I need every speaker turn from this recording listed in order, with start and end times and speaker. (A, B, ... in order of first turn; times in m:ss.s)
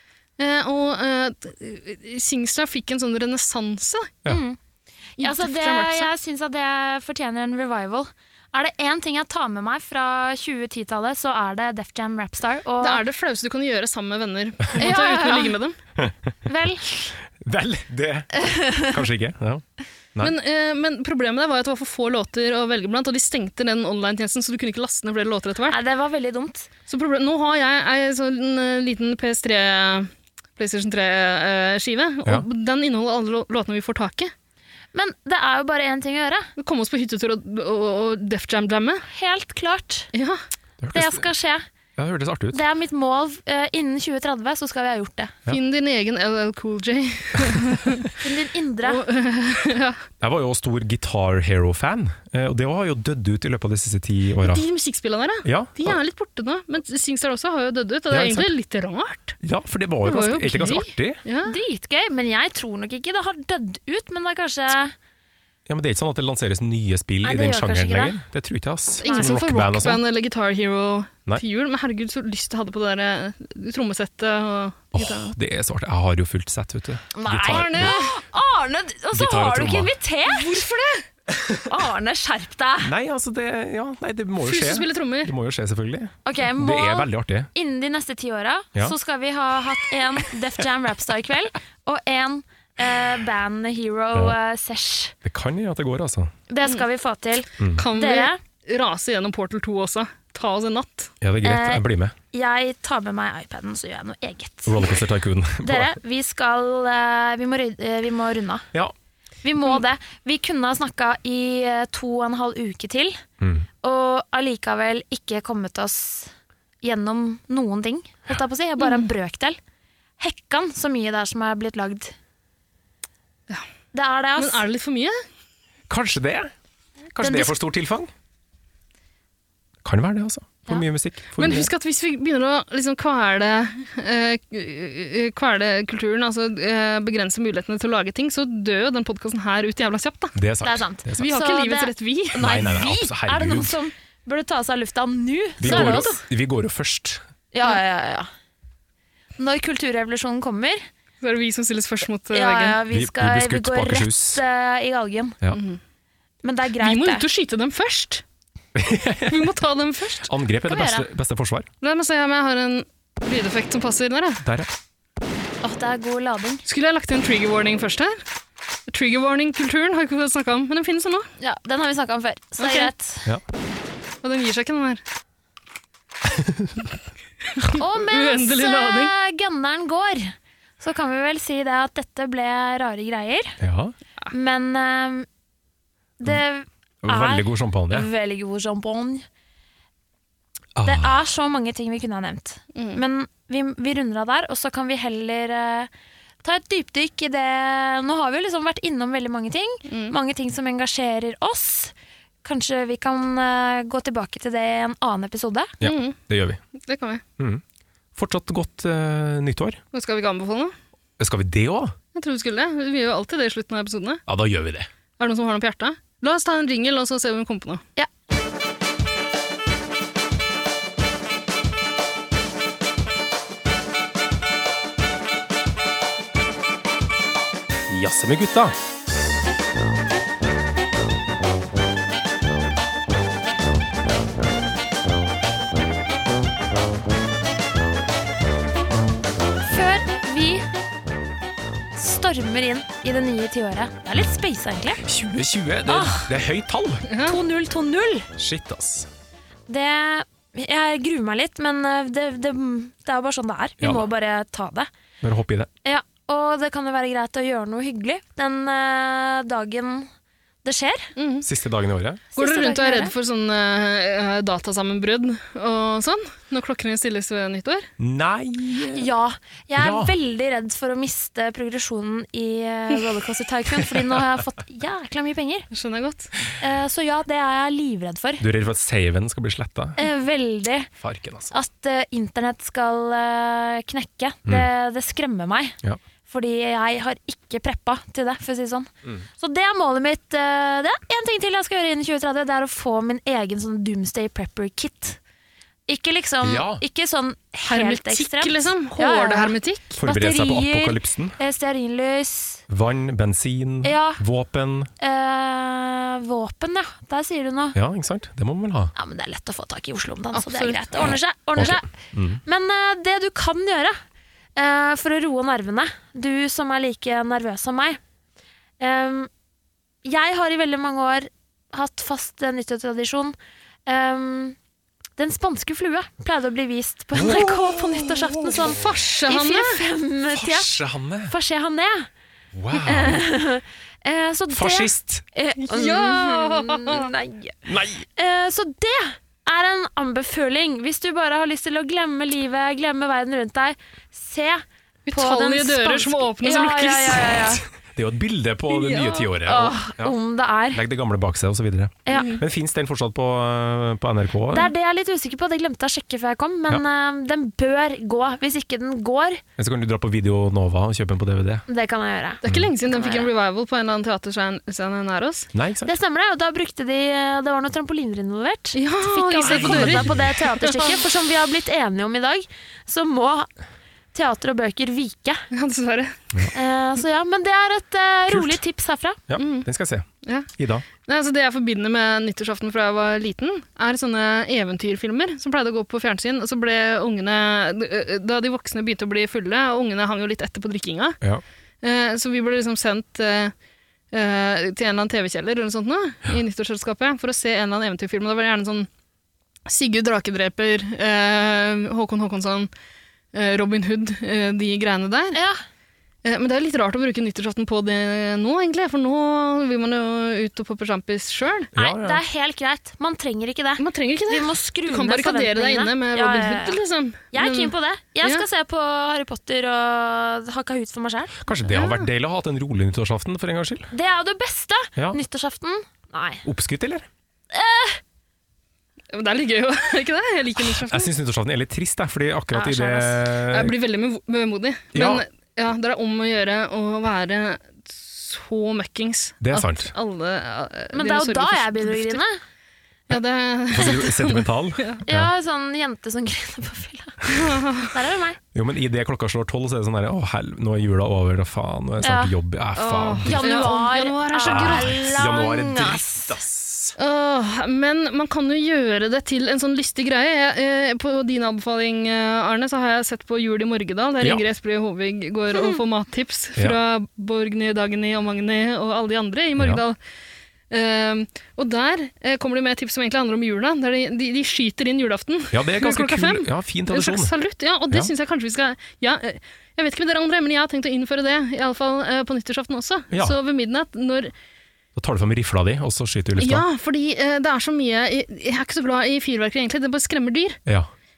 0:00.4-0:04.2 A
0:04.3-0:04.6 B
0:05.2-0:06.1 A
0:05.2-0:13.0 B
0:12.8-0:15.8 A
0:14.8-0:15.6 B
0:16.4-0:17.1 B
0:17.4-0:19.6 C
0:20.2-0:25.8 A
0:25.7-0:26.7 B
0:26.9-0:34.3 A
0:34.9-0:36.5 B
0:36.6-0:39.1 A
0:39.1-0:40.1 B
0:40.1-0:40.4 A
0:40.8-0:41.3 C
0:40.9-0:41.6 B
0:42.0-0:42.6 C
0:42.5-0:45.3 B
0:45.5-0:48.1 A
0:48.2-0:49.0 B
0:48.8-0:50.0 A
0:50.2-0:54.6 C
0:54.4-0:59.4 A
0:55.4-0:56.0 C
0:58.1-0:58.5 C
0:59.4-1:01.2 C
1:00.0-1:01.5 A
1:01.4-1:04.9 B
1:05.7-1:10.0 C
1:07.2-1:08.2 B
1:09.0-1:15.3 A
1:09.0-1:09.4 B
1:14.9-1:17.9 C
1:17.2-1:20.6 B
1:17.4-1:18.1 A
1:19.1-1:19.9 C
1:20.3-1:21.0 A
1:21.7-1:22.9 B
1:22.8-1:27.5 C
1:24.4-1:25.3 A
1:26.2-1:35.2 B
1:35.2-1:36.3 C
1:36.5-1:38.4 B
1:37.6-1:37.8 C
1:37.7-1:41.1 A
1:41.2-1:42.2 C
1:41.4-1:44.8 B
1:44.7-1:46.0 C
1:45.6-1:48.7 B
1:49.4-1:53.2 B
1:53.4-1:53.7 C
1:53.8-1:59.6 B
1:58.8-1:59.1 A
2:00.2-2:02.1 B
2:03.9-2:04.6 B
2:04.4-2:05.2 A
2:05.9-2:06.5 C
2:07.1-2:08.1 C
2:07.2-2:07.6 B
2:09.8-2:11.7 C
2:11.4-2:20.4 A
2:20.4-2:21.3 C
2:20.6-2:26.2 B
2:21.2-2:22.5 A
2:22.3-2:23.7 C
2:25.6-2:27.2 C
2:25.6-2:26.2 A
2:27.5-2:28.3 B
2:29.4-2:30.8 B
2:31.2-2:32.8 A
2:32.3-2:35.4 B
2:32.9-2:34.4 C
2:35.5-2:35.8 A
2:36.4-2:37.2 B
2:36.8-2:38.2 A
2:38.7-2:39.5 C
2:39.3-2:40.3 A
2:40.3-2:41.7 C
2:40.7-2:41.1 B
2:41.8-2:44.4 A
2:44.4-2:44.7 C
2:45.6-2:46.6 B
2:46.7-2:48.2 A
2:48.9-2:51.3 A
2:51.4-2:53.3 B
2:52.6-2:52.9 A
2:54.2-2:55.0 A
2:56.3-2:56.8 C
2:57.6-2:59.1 A
2:57.8-3:03.6 B
3:03.6-3:03.9 C
3:04.3-3:05.3 B
3:06.2-3:09.2 B
3:07.0-3:08.1 C
3:10.8-3:11.2 C
3:10.8-3:15.9 B
3:12.7-3:13.0 A
3:16.4-3:21.9 B
3:19.9-3:20.2 A
3:22.4-3:25.7 B
3:25.8-3:26.6 C
3:25.8-3:26.2 A
3:26.8-3:27.2 A
3:28.2-3:29.8 C
3:29.9-3:30.7 A
3:31.2-3:32.0 C
3:32.2-3:34.2 A
3:34.3-3:34.9 C
3:35.2-3:37.9 A
3:47.9-3:48.8 C
3:59.6-4:00.7 B
4:02.0-4:05.0 B
4:05.0-4:07.1 C
4:05.9-4:06.3 B
4:07.1-4:07.4 A
4:07.2-4:08.3 B
4:08.4-4:09.1 C
4:09.7-4:14.9 B
4:13.8-4:14.0 C
4:15.2-4:15.7 C
4:15.8-4:20.1 B
4:20.6-4:21.1 B
4:21.2-4:21.5 A
4:21.4-4:22.2 C
4:22.4-4:23.1 B
4:22.4-4:27.9 A
4:28.0-4:29.1 C
4:29.0-4:35.7 B
4:29.8-4:30.2 C
4:33.8-4:34.2 C
4:35.7-4:36.3 A
4:36.6-4:38.4 B
4:38.4-4:40.0 C
4:40.0-4:40.9 B
4:41.0-4:41.6 C
4:41.5-4:45.8 B
4:46.3-4:55.2 B
4:55.9-5:02.6 B
4:56.4-4:56.8 C
4:57.7-5:00.0 A
5:00.0-5:01.4 C
5:02.7-5:04.9 C
5:03.8-5:04.2 B
5:05.0-5:07.8 B
5:07.7-5:08.9 C
5:09.0-5:11.9 B
5:10.3-5:10.9 A
5:11.6-5:12.4 C
5:12.4-5:14.0 B
5:14.6-5:18.0 B
5:18.8-5:19.3 B
5:20.0-5:23.4 B
5:23.9-5:24.6 B
5:25.2-5:30.7 B
5:27.1-5:28.7 C
5:28.7-5:29.8 A
5:30.3-5:31.3 C
5:31.3-5:32.1 B
5:32.5-5:33.2 C
5:32.8-5:37.6 B
5:34.5-5:35.2 C
5:35.7-5:37.1 A
5:37.7-5:38.1 C
5:38.2-5:47.6 B
5:45.1-5:47.6 A
5:48.0-5:50.2 C
5:48.7-5:49.3 A
5:49.4-5:50.8 B
5:50.7-5:54.7 C
5:52.1-5:52.4 B
5:52.1-5:52.4 A
5:54.5-5:59.4 B
5:59.6-6:01.6 C
6:01.7-6:03.3 B
6:02.4-6:05.5 A
6:02.4-6:02.7 C
6:05.6-6:05.9 C
6:05.8-6:13.5 B
6:08.7-6:11.0 A
6:09.4-6:10.4 C
6:14.1-6:15.4 B
6:15.5-6:16.2 A
6:16.5-6:19.2 B
6:18.3-6:18.6 C
6:19.3-6:20.8 C
6:19.4-6:19.7 A
6:20.2-6:20.5 A
6:21.0-6:31.2 A
6:31.8-6:33.5 A
6:34.1-6:38.9 A
6:39.7-6:42.7 A
6:43.3-6:45.4 A
6:46.2-6:51.7 A
6:51.7-6:52.2 C
6:51.8-6:56.8 B
6:53.8-6:58.4 A
6:57.3-7:01.4 B
7:01.4-7:03.9 C
7:01.7-7:02.1 A
7:03.9-7:06.4 B
7:06.4-7:07.1 C
7:07.5-7:08.0 B
7:09.1-7:11.1 A
7:10.8-7:13.7 C
7:12.5-7:13.2 B
7:13.5-7:22.2 A
7:14.9-7:15.2 C
7:19.4-7:19.9 C
7:20.9-7:22.4 B
7:23.1-7:25.0 A
7:23.7-7:25.3 C
7:25.1-7:27.2 B
7:27.4-7:27.8 A
7:27.8-7:28.4 B
7:28.5-7:33.8 C
7:32.0-7:32.3 B
7:32.8-7:35.1 A
7:33.3-7:36.3 B
7:34.4-7:37.0 C
7:37.0-7:50.0 A
7:45.5-7:45.8 B
7:50.7-8:04.3 A
7:55.5-7:57.3 C
8:03.1-8:03.4 C
8:05.0-8:06.7 C
8:06.4-8:10.6 A